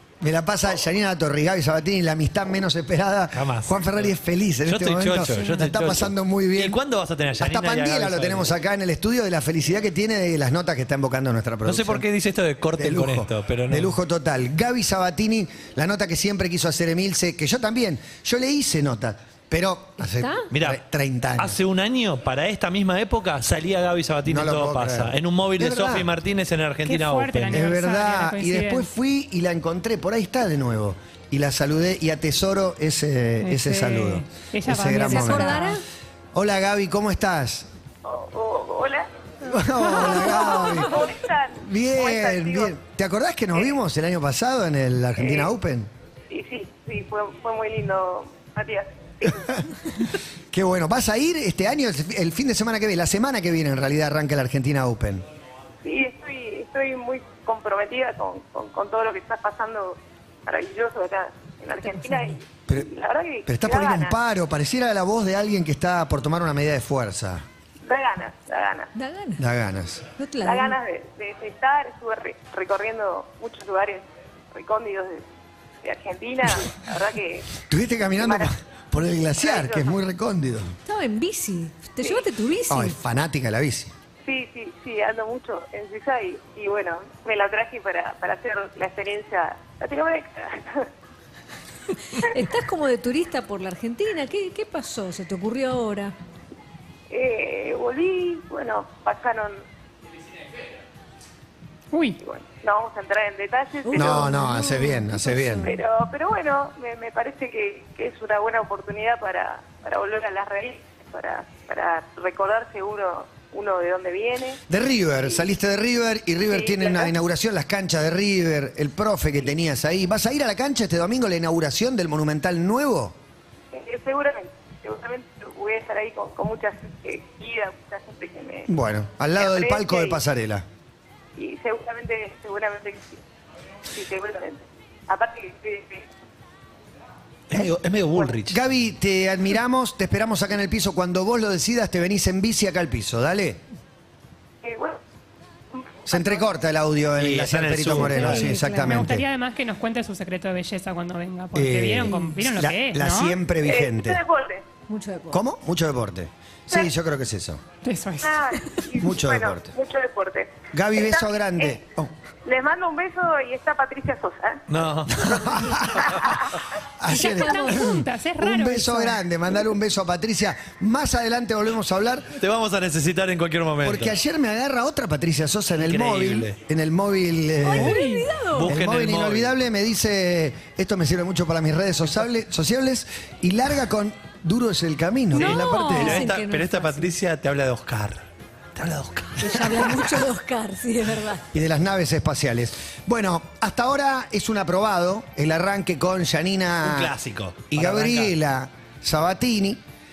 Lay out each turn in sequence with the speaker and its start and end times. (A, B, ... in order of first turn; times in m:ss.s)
0:00.2-0:06.8 A
0:03.3-0:04.1 B
0:04.6-0:08.5 B
0:07.4-0:12.0 A
0:11.6-0:13.9 B
0:12.8-0:21.6 A
0:20.0-0:20.5 C
0:20.5-0:20.8 B
0:21.4-0:27.6 B
0:24.2-0:26.1 A
0:26.8-0:28.9 D
0:27.5-0:35.7 A
0:33.4-0:35.8 D
0:35.0-0:35.8 C
0:36.3-0:37.7 A
0:38.0-0:39.1 E
0:39.5-0:45.9 A
0:39.8-0:42.7 E
0:45.2-0:45.5 E
0:46.3-0:49.4 E
0:49.2-0:49.6 A
0:50.5-0:55.2 A
0:55.8-1:04.1 E
1:01.8-1:02.4 C
1:03.4-1:07.4 A
1:07.8-1:08.9 E
1:08.9-1:09.4 C
1:09.4-1:10.1 A
1:10.2-1:10.8 C
1:10.4-1:15.2 E
1:15.8-1:17.5 E
1:17.6-1:20.8 A
1:18.1-1:18.5 E
1:19.4-1:19.9 E
1:20.8-1:23.0 C
1:22.7-1:23.9 A
1:24.2-1:30.9 E
1:32.1-1:36.1 C
1:37.1-1:39.6 E
1:41.9-1:42.2 D
1:42.2-1:44.3 E
1:43.8-1:45.7 C
1:43.9-1:45.8 A
1:45.6-1:54.6 E
1:54.7-2:03.1 A
1:56.5-1:57.1 E
2:03.7-2:08.7 E
2:08.7-2:10.6 A
2:09.4-2:10.2 E
2:11.4-2:13.2 E
2:13.9-2:16.0 E
2:17.5-2:18.6 B
2:18.4-2:23.6 A
2:24.6-2:25.0 E
2:25.7-2:26.4 E
2:26.0-2:29.2 A
2:27.2-2:28.5 B
2:28.1-2:29.1 C
2:28.7-2:33.4 D
2:31.5-2:34.2 A
2:33.6-2:34.6 E
2:34.9-2:35.4 C
2:35.3-2:37.6 A
2:37.8-2:38.4 D
2:38.2-2:41.8 E
2:39.0-2:39.7 A
2:40.7-2:42.1 A
2:42.4-2:44.6 E
2:44.7-2:45.5 B
2:45.1-2:46.2 A
2:46.2-2:46.4 E
2:47.0-2:52.4 A
2:47.1-2:49.2 D
2:47.2-2:47.7 C
2:52.4-2:54.1 B
2:53.8-2:58.0 A
2:55.8-2:56.6 B
2:57.6-2:58.7 C
2:57.7-2:58.2 D
2:58.5-2:59.5 B
2:58.7-3:06.2 A
3:05.3-3:06.1 D
3:05.4-3:07.1 C
3:05.9-3:08.2 B
3:08.7-3:09.9 B
3:09.4-3:11.4 C
3:11.5-3:17.1 A
3:16.8-3:18.3 B
3:17.7-3:19.8 A